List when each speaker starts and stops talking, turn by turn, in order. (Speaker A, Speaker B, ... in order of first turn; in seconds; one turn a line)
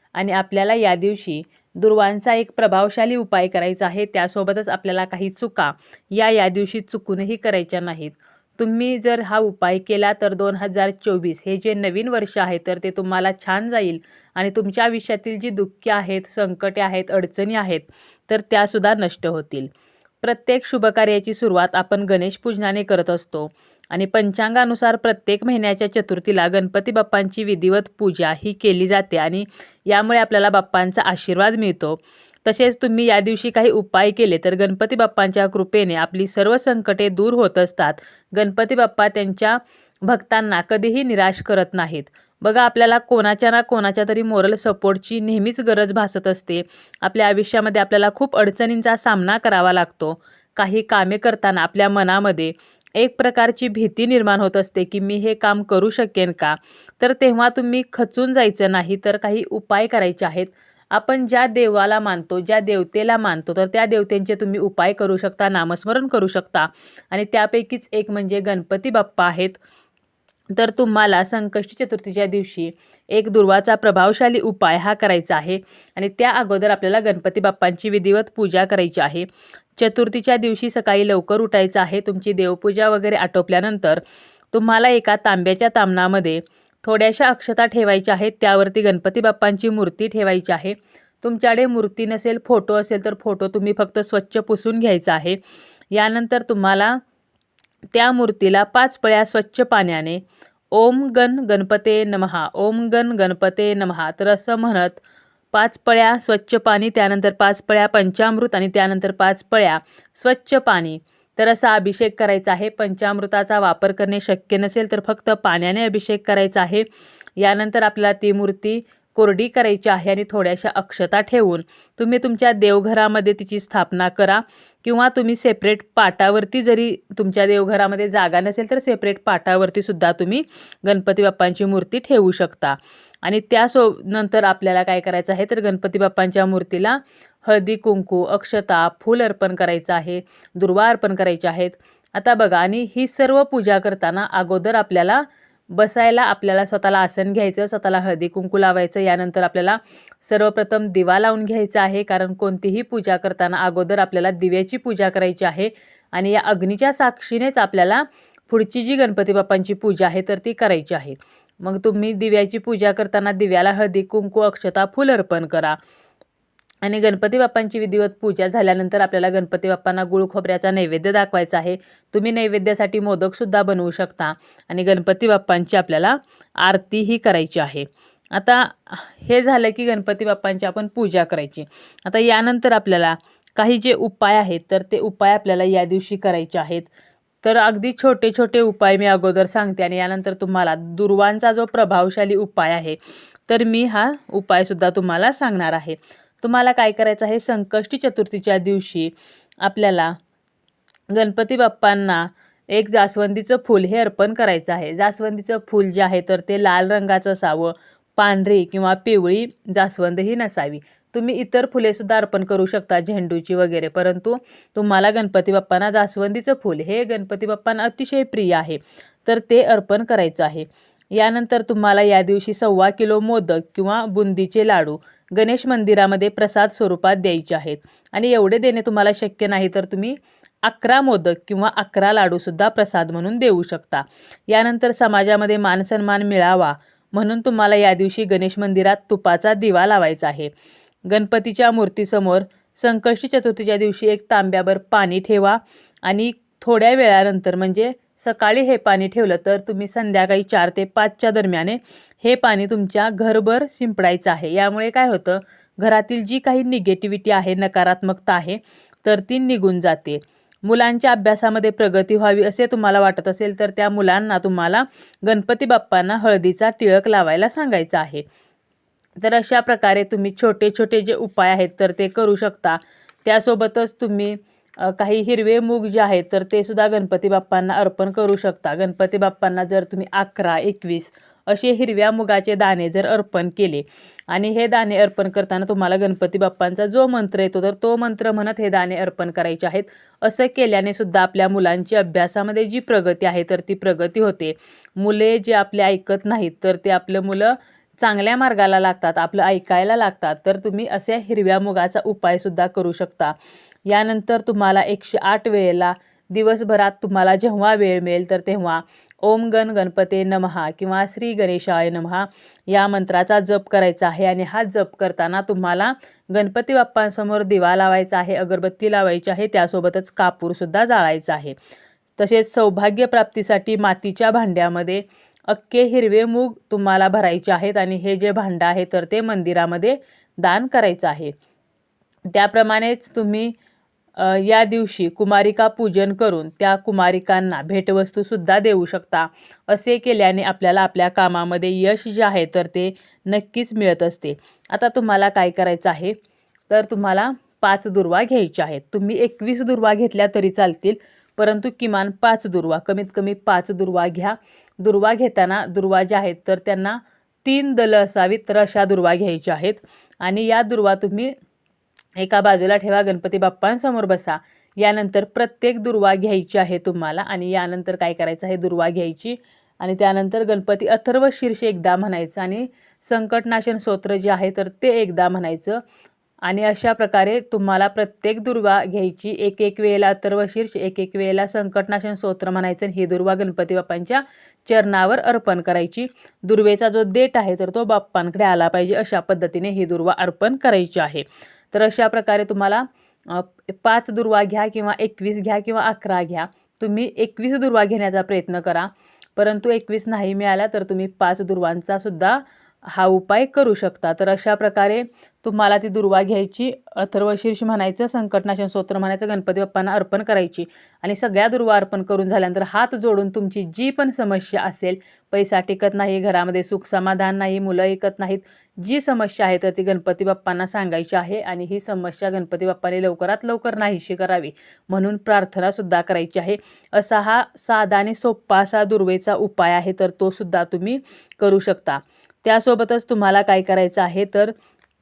Speaker A: 0.1-19.7
Speaker A: 20.2-69.6
Speaker A: 70.5-84.0
Speaker A: 84.5-95.4
Speaker A: 95.9-97.0
Speaker A: 97.9-100.2
Speaker A: 100.7-105.0
Speaker A: 105.5-145.2
Speaker A: 145.7-165.8
Speaker A: 166.8-186.9
Speaker A: 187.4-193.0
Speaker A: 193.5-199.1
Speaker A: 199.6-200.2
Speaker A: 201.1-240.5
Speaker A: 241.1-268.2
Speaker A: 269.2-303.3
Speaker A: 303.9-321.5
Speaker A: 322.2-331.3
Speaker A: 332.3-333.5
Speaker A: 334.2-346.1
Speaker A: 346.7-361.3
Speaker A: 362.2-375.8
Speaker A: 376.4-434.5